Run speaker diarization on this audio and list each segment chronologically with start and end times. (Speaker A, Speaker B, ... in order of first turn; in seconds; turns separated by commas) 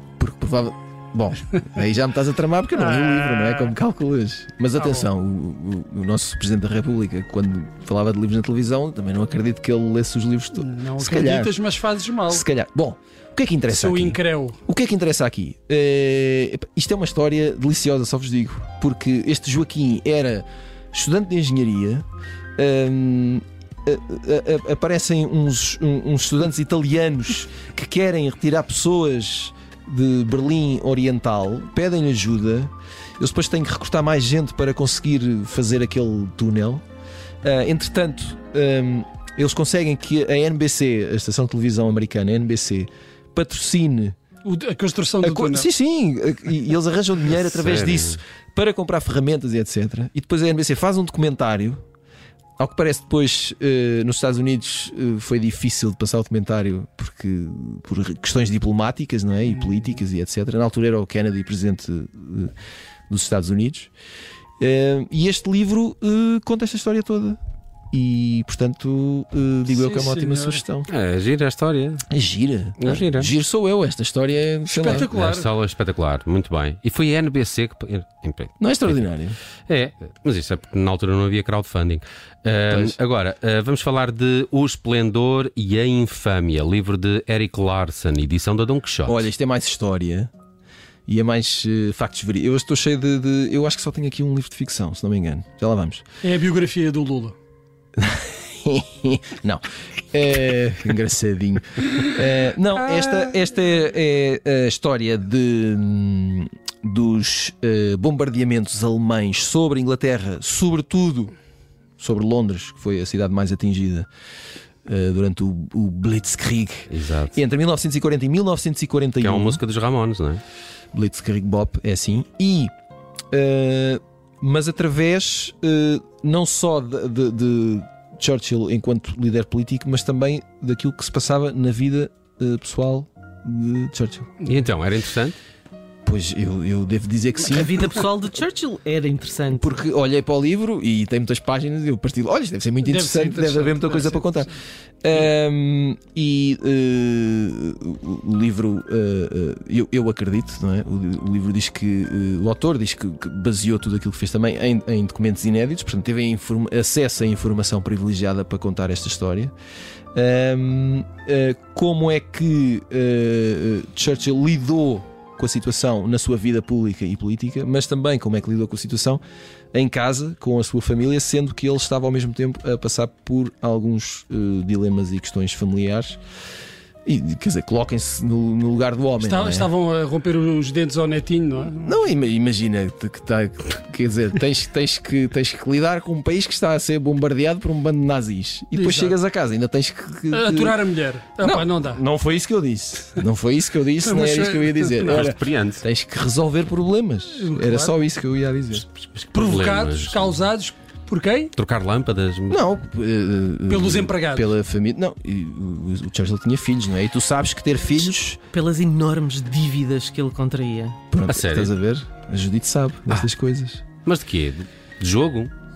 Speaker A: 0.2-11.6, Speaker B: 2.8-3.7, Speaker B: 4.8-5.1, Speaker B: 10.6-12.4, Speaker A: 12.3-22.0, Speaker B: 13.7-14.6, Speaker A: 22.6-36.8, Speaker A: 37.4-44.1, Speaker B: 44.4-45.7, Speaker A: 45.2-51.8, Speaker C: 47.4-48.2, Speaker A: 52.6-62.5, Speaker A: 63.1-63.9, Speaker A: 64.6-67.4, Speaker A: 67.9-70.9, Speaker B: 69.7-70.6, Speaker C: 70.9-72.0, Speaker A: 72.1-75.1, Speaker C: 72.8-73.3, Speaker B: 74.7-75.5, Speaker C: 74.9-79.0, Speaker A: 78.6-79.4, Speaker C: 79.7-89.2, Speaker A: 82.7-83.0, Speaker A: 89.0-90.3, Speaker A: 91.1-96.0, Speaker B: 96.2-97.3, Speaker A: 98.0-111.3, Speaker A: 112.0-114.1, Speaker A: 114.8-119.6, Speaker C: 116.9-117.4, Speaker C: 119.2-120.4, Speaker A: 120.9-122.7, Speaker A: 123.3-134.3, Speaker C: 134.4-135.4, Speaker A: 136.0-137.9, Speaker D: 137.4-139.8, Speaker A: 139.5-144.5, Speaker B: 142.8-144.4, Speaker A: 145.0-159.5, Speaker A: 160.1-169.2, Speaker A: 169.7-176.2, Speaker A: 177.1-179.7, Speaker B: 179.2-182.0, Speaker A: 181.8-190.8, Speaker B: 188.7-189.2, Speaker B: 190.3-192.0, Speaker A: 191.4-198.8, Speaker B: 194.0-195.3, Speaker C: 195.1-195.8, Speaker B: 197.4-197.9, Speaker C: 199.1-200.3, Speaker B: 199.3-201.5, Speaker C: 201.6-202.6, Speaker A: 202.5-208.4, Speaker B: 203.7-204.5, Speaker D: 208.5-211.0, Speaker A: 211.1-213.8, Speaker C: 211.2-211.7, Speaker C: 214.0-215.5